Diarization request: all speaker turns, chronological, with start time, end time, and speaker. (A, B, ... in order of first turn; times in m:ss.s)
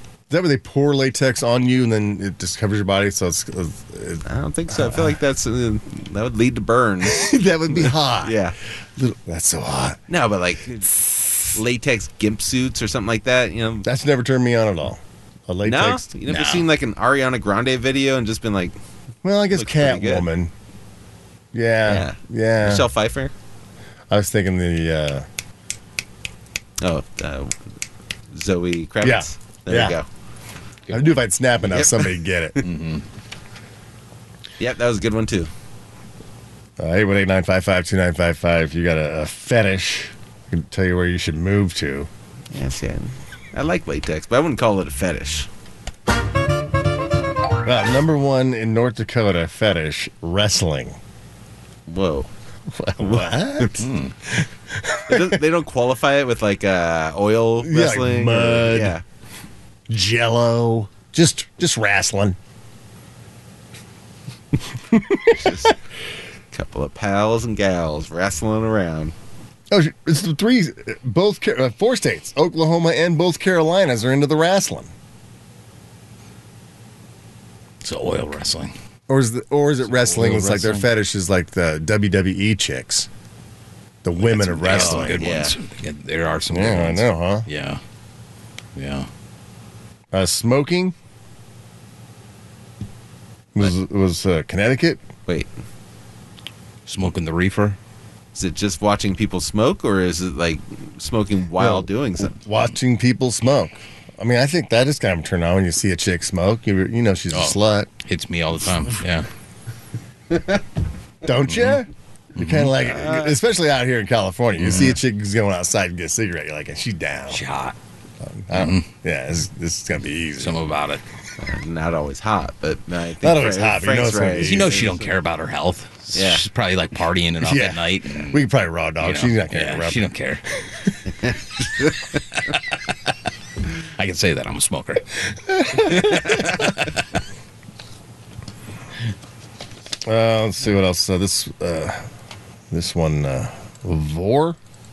0:00.3-0:05.2 A
0:04.3-0:08.6 B
0:07.0-0:08.4 A
0:09.0-0:10.0 A
0:10.1-0:13.9 B
0:10.9-0:11.5 A
0:13.8-0:16.0 A
0:15.6-0:18.8 B
0:16.3-0:16.7 C
0:19.2-0:20.5 A
0:19.5-0:20.2 B
0:21.5-0:22.9 A
0:21.9-0:23.3 B
0:24.1-0:25.3 A
0:26.8-0:27.6 B
0:28.3-0:30.1 B
0:29.0-0:30.0 A
0:30.9-0:32.6 A
0:31.7-0:32.7 B
0:32.6-0:33.0 C
0:34.6-0:35.5 B
0:36.8-0:42.1 A
0:42.5-0:45.5 B
0:47.6-0:51.0 A
0:51.9-0:52.3 B
0:52.7-0:55.4 A
0:53.0-0:53.7 B
0:53.8-0:54.1 C
0:55.1-0:59.0 B
0:57.6-0:59.0 A
0:59.9-1:02.4 A
1:04.9-1:05.6 A
1:05.3-1:05.8 B
1:06.5-1:09.1 B
1:09.7-1:14.9 A
1:17.8-1:18.7 C
1:19.1-1:23.1 A
1:19.8-1:20.9 C
1:24.0-1:25.3 A
1:24.2-1:27.8 C
1:24.7-1:25.6 B
1:26.5-1:27.5 A
1:28.8-1:29.1 C
1:30.1-1:30.9 A
1:33.6-1:35.0 A
1:36.9-1:37.8 C
1:38.4-1:42.3 B
1:41.6-1:47.9 A
1:47.3-1:49.3 C
1:51.2-1:57.4 A
1:51.5-1:51.8 C
1:52.4-1:52.8 C
1:52.8-1:53.4 B
1:54.6-1:55.0 C
1:57.3-1:57.8 C
1:58.2-2:00.7 A
1:58.5-1:58.9 C
2:00.4-2:01.0 C
2:01.4-2:05.1 B
2:03.2-2:04.8 A
2:04.4-2:08.4 C
2:06.2-2:06.4 B
2:07.4-2:10.1 A
2:09.0-2:10.4 C
2:11.2-2:12.0 B
2:14.0-2:15.0 C
2:15.5-2:16.4 A
2:20.0-2:22.1 A
2:22.7-2:24.6 A